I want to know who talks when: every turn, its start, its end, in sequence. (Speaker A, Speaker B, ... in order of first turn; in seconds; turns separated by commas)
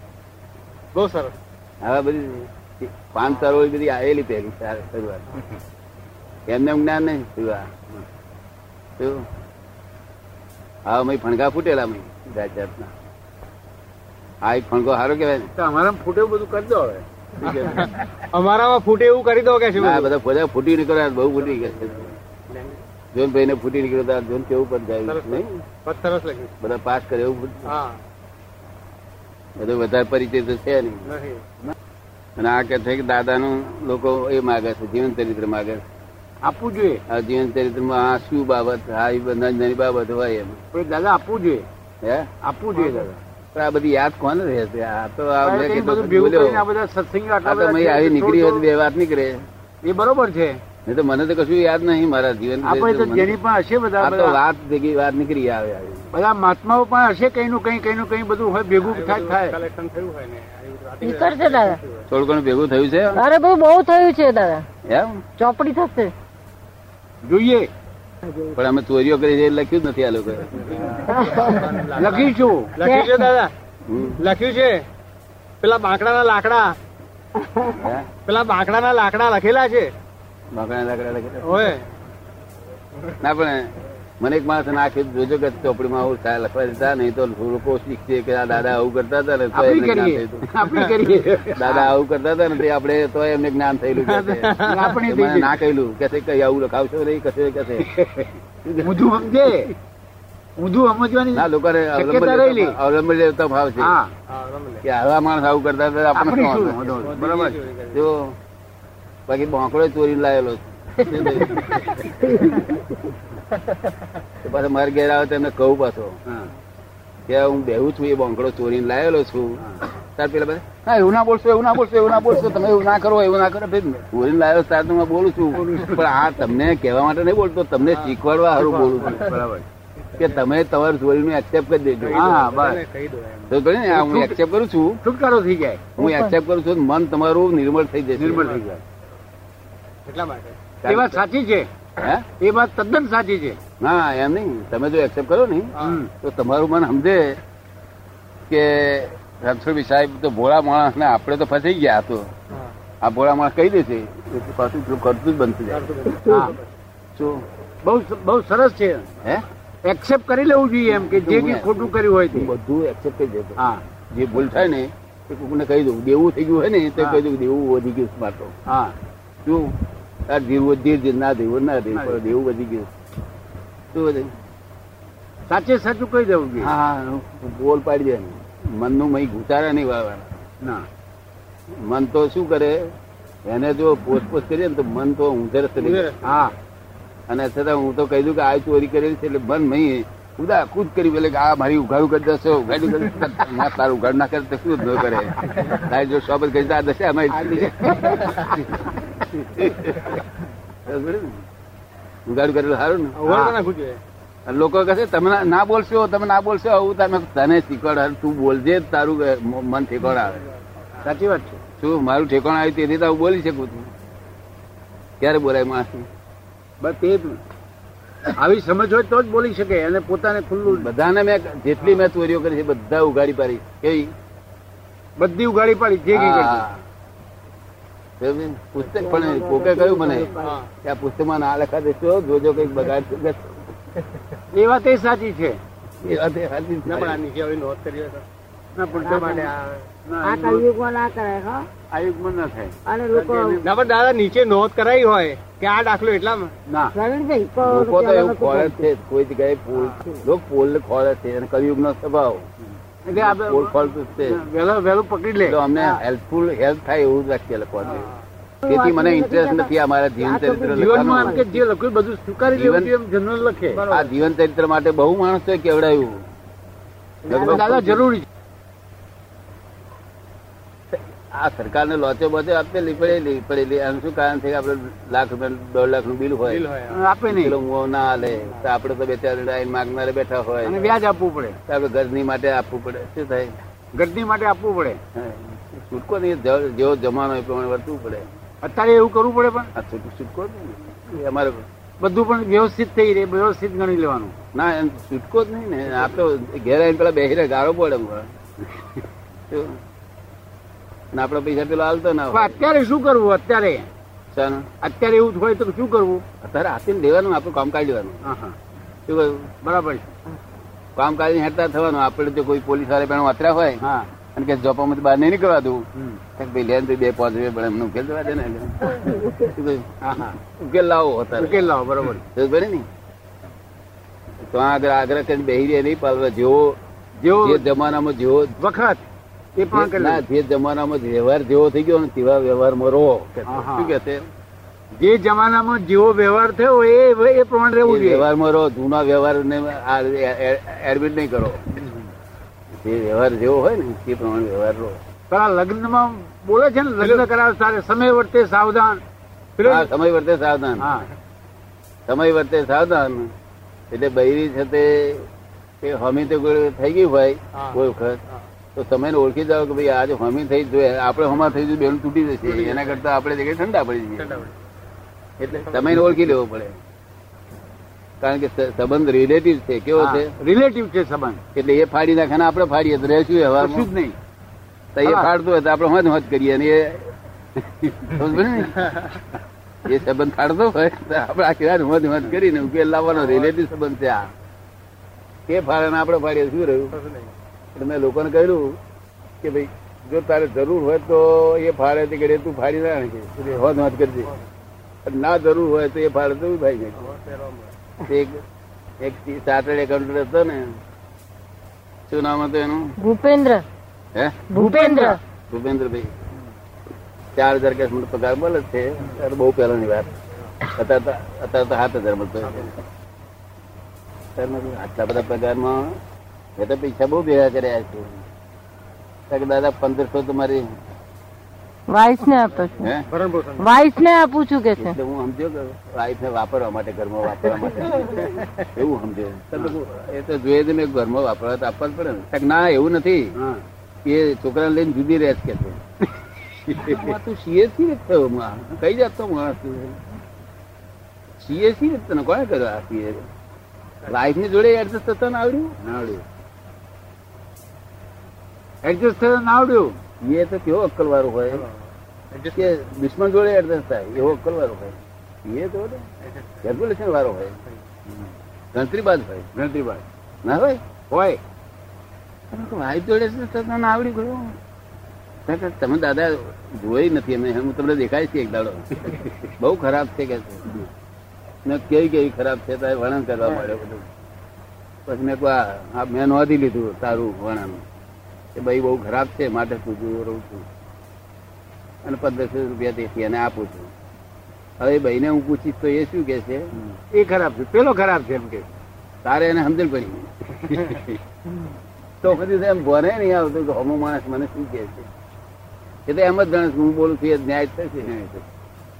Speaker A: 0.9-1.3, Speaker B: 1.8-5.3, Speaker B: 6.5-7.7, Speaker B: 9.0-9.2, Speaker B: 10.8-12.9, Speaker B: 14.4-15.5, Speaker C: 15.6-17.0, Speaker B: 17.4-17.9, Speaker A: 17.4-20.1, Speaker B: 19.8-22.1, Speaker A: 21.5-22.0, Speaker A: 22.5-22.8, Speaker B: 23.1-25.6, Speaker A: 25.1-26.5, Speaker B: 26.6-27.7, Speaker A: 27.6-28.0, Speaker B: 29.6-31.1, Speaker A: 31.1-31.4, Speaker B: 32.4-35.8, Speaker C: 36.4-37.0, Speaker B: 37.1-40.6, Speaker C: 40.7-41.6, Speaker B: 42.0-42.3, Speaker C: 42.4-43.2, Speaker B: 43.5-46.6, Speaker C: 45.4-48.6, Speaker B: 47.4-49.4, Speaker C: 49.8-50.6, Speaker B: 50.9-53.4, Speaker C: 52.6-54.4, Speaker B: 54.0-56.1, Speaker C: 56.1-59.6, Speaker A: 58.8-62.1, Speaker D: 61.0-61.8, Speaker B: 62.1-63.2, Speaker D: 63.1-64.6, Speaker B: 64.8-65.2, Speaker D: 65.4-66.1, Speaker C: 67.2-67.7, Speaker E: 68.2-68.5, Speaker B: 68.5-71.0, Speaker A: 70.5-73.5, Speaker E: 71.2-71.6, Speaker C: 71.9-72.7, Speaker D: 72.8-73.2, Speaker B: 73.8-74.2, Speaker A: 74.2-74.8, Speaker A: 75.6-76.8, Speaker E: 77.4-77.7, Speaker B: 77.7-78.1, Speaker A: 78.2-79.9, Speaker B: 80.5-81.7, Speaker A: 81.4-81.8, Speaker B: 83.2-90.5, Speaker C: 89.5-91.9, Speaker B: 91.5-97.9, Speaker A: 94.0-94.9, Speaker C: 94.6-95.5, Speaker C: 97.8-99.7, Speaker B: 98.6-99.2, Speaker C: 100.6-102.8, Speaker B: 101.3-103.9, Speaker C: 103.8-104.1, Speaker A: 104.3-104.8, Speaker B: 104.8-107.0, Speaker C: 106.1-107.6, Speaker A: 107.0-108.1, Speaker B: 107.9-108.3, Speaker B: 109.3-111.9, Speaker E: 112.2-112.8, Speaker B: 114.4-116.2, Speaker B: 117.3-129.3, Speaker C: 125.5-126.1, Speaker A: 127.9-129.2, Speaker C: 128.9-129.7, Speaker A: 130.1-130.4, Speaker B: 130.2-132.5, Speaker A: 132.0-133.5, Speaker C: 132.1-132.8, Speaker B: 133.5-135.0, Speaker C: 133.9-134.4, Speaker C: 135.0-135.9, Speaker B: 136.0-138.6, Speaker D: 136.0-136.3, Speaker C: 138.2-138.8, Speaker A: 140.1-140.6, Speaker B: 140.8-141.2, Speaker C: 140.8-141.7, Speaker B: 142.0-142.3, Speaker C: 142.3-143.6, Speaker B: 143.8-147.4, Speaker C: 145.8-146.1, Speaker B: 148.5-152.3, Speaker B: 153.0-156.1, Speaker A: 155.7-156.6, Speaker C: 156.2-156.6, Speaker B: 157.2-157.4, Speaker C: 157.8-159.1, Speaker C: 159.8-162.5, Speaker B: 160.9-168.6, Speaker C: 163.6-163.8, Speaker C: 167.0-167.2, Speaker C: 168.7-168.9, Speaker B: 169.4-169.8, Speaker B: 170.3-172.9, Speaker C: 171.9-172.2, Speaker B: 173.9-174.3, Speaker C: 175.5-176.7, Speaker B: 176.6-180.4, Speaker C: 180.6-180.9, Speaker B: 181.7-182.9, Speaker B: 183.4-186.1, Speaker A: 185.8-186.4, Speaker C: 186.2-186.5, Speaker B: 187.3-198.5, Speaker C: 197.3-198.7, Speaker B: 199.3-200.2, Speaker B: 200.8-201.4, Speaker B: 202.3-203.5, Speaker A: 203.1-204.0, Speaker C: 203.3-203.5, Speaker B: 204.5-210.4, Speaker C: 211.0-211.6, Speaker B: 211.8-213.9, Speaker B: 215.2-216.1, Speaker C: 216.8-217.4, Speaker C: 218.3-220.9, Speaker B: 220.7-224.1, Speaker C: 225.2-226.7, Speaker B: 226.1-226.8, Speaker B: 228.2-233.6, Speaker E: 228.8-230.6, Speaker A: 230.4-230.7, Speaker C: 234.5-235.6, Speaker B: 236.0-237.2, Speaker A: 236.9-238.2, Speaker C: 238.7-239.5, Speaker E: 238.9-239.5, Speaker A: 239.1-239.8, Speaker C: 240.0-240.7, Speaker E: 240.2-241.7, Speaker B: 241.9-243.6, Speaker E: 242.9-243.6, Speaker A: 243.6-246.5, Speaker C: 246.7-246.9, Speaker E: 246.9-248.8, Speaker B: 247.6-252.5, Speaker C: 253.1-255.9, Speaker B: 253.2-254.4, Speaker B: 255.4-258.1, Speaker A: 257.8-258.2, Speaker E: 258.6-261.5, Speaker B: 258.6-261.5, Speaker C: 260.7-263.9, Speaker B: 262.5-262.9, Speaker A: 263.7-264.1, Speaker B: 263.9-266.2, Speaker B: 267.3-268.1, Speaker C: 267.3-268.3, Speaker B: 270.9-276.6, Speaker A: 276.5-277.0, Speaker C: 276.9-277.6, Speaker B: 277.3-280.8, Speaker C: 280.6-281.6, Speaker B: 281.7-283.5, Speaker C: 283.9-285.0, Speaker B: 285.1-288.2, Speaker C: 288.6-289.7, Speaker B: 289.7-291.6, Speaker C: 292.0-294.3, Speaker B: 294.5-298.3, Speaker B: 299.5-299.8, Speaker B: 301.1-302.6, Speaker C: 302.3-303.9, Speaker B: 304.3-304.7, Speaker C: 304.8-306.2, Speaker B: 306.4-308.3, Speaker C: 308.2-308.6, Speaker B: 309.1-309.6, Speaker C: 309.6-310.1, Speaker B: 310.9-321.7, Speaker C: 313.8-314.1, Speaker C: 315.9-316.2, Speaker C: 320.0-320.4, Speaker C: 321.4-322.2, Speaker B: 322.2-322.9, Speaker B: 324.4-326.8, Speaker C: 327.2-327.7, Speaker B: 327.3-328.6, Speaker C: 328.6-329.0, Speaker C: 329.6-330.2, Speaker B: 329.7-334.3, Speaker C: 333.4-333.9, Speaker C: 334.9-338.2, Speaker B: 337.8-341.8, Speaker C: 341.8-342.0, Speaker B: 342.8-345.0, Speaker C: 345.3-349.0, Speaker A: 349.6-349.9, Speaker B: 349.6-350.9, Speaker C: 350.8-351.1, Speaker B: 352.1-353.3, Speaker B: 353.9-355.3, Speaker B: 355.8-358.2, Speaker B: 358.7-364.4, Speaker A: 362.4-363.0, Speaker A: 364.2-364.5, Speaker B: 365.4-366.8, Speaker B: 368.2-370.3, Speaker C: 369.9-371.4, Speaker B: 371.5-373.9, Speaker C: 373.6-374.1, Speaker B: 374.9-377.1, Speaker C: 375.0-375.3, Speaker B: 377.8-378.9, Speaker B: 379.8-384.3, Speaker A: 383.2-383.5, Speaker B: 385.5-386.9, Speaker A: 386.9-387.3, Speaker B: 387.7-388.8, Speaker B: 389.4-394.3, Speaker B: 395.0-397.1, Speaker A: 396.9-397.7, Speaker B: 398.0-398.4, Speaker B: 399.0-400.8, Speaker B: 402.1-402.9, Speaker D: 403.0-403.6, Speaker B: 404.1-404.5, Speaker D: 404.5-405.2, Speaker C: 404.6-405.1, Speaker B: 405.5-406.1, Speaker B: 407.3-410.1, Speaker B: 410.6-412.7, Speaker B: 414.4-416.0, Speaker B: 416.6-418.2, Speaker B: 419.3-420.6, Speaker D: 421.9-422.8, Speaker B: 422.8-423.1, Speaker A: 423.1-423.6, Speaker D: 423.6-425.0, Speaker B: 424.8-433.4, Speaker C: 433.3-433.6, Speaker B: 434.0-435.8, Speaker C: 436.6-437.1, Speaker B: 436.7-440.0, Speaker B: 441.4-443.3, Speaker B: 444.1-445.8, Speaker C: 445.8-446.2, Speaker C: 448.8-449.9, Speaker B: 450.2-451.6, Speaker A: 452.3-452.7, Speaker B: 452.5-456.1, Speaker A: 456.2-456.6, Speaker B: 456.6-457.6, Speaker B: 458.7-459.5, Speaker C: 459.5-460.0, Speaker B: 460.4-460.8, Speaker C: 461.1-461.4, Speaker B: 462.5-464.6, Speaker B: 465.4-470.7, Speaker B: 471.6-474.1, Speaker B: 475.1-477.8, Speaker B: 478.5-480.6, Speaker B: 482.0-483.9, Speaker B: 484.8-486.7, Speaker C: 486.9-488.6, Speaker B: 489.2-490.9, Speaker B: 492.2-495.1, Speaker B: 496.1-498.2, Speaker C: 498.1-498.4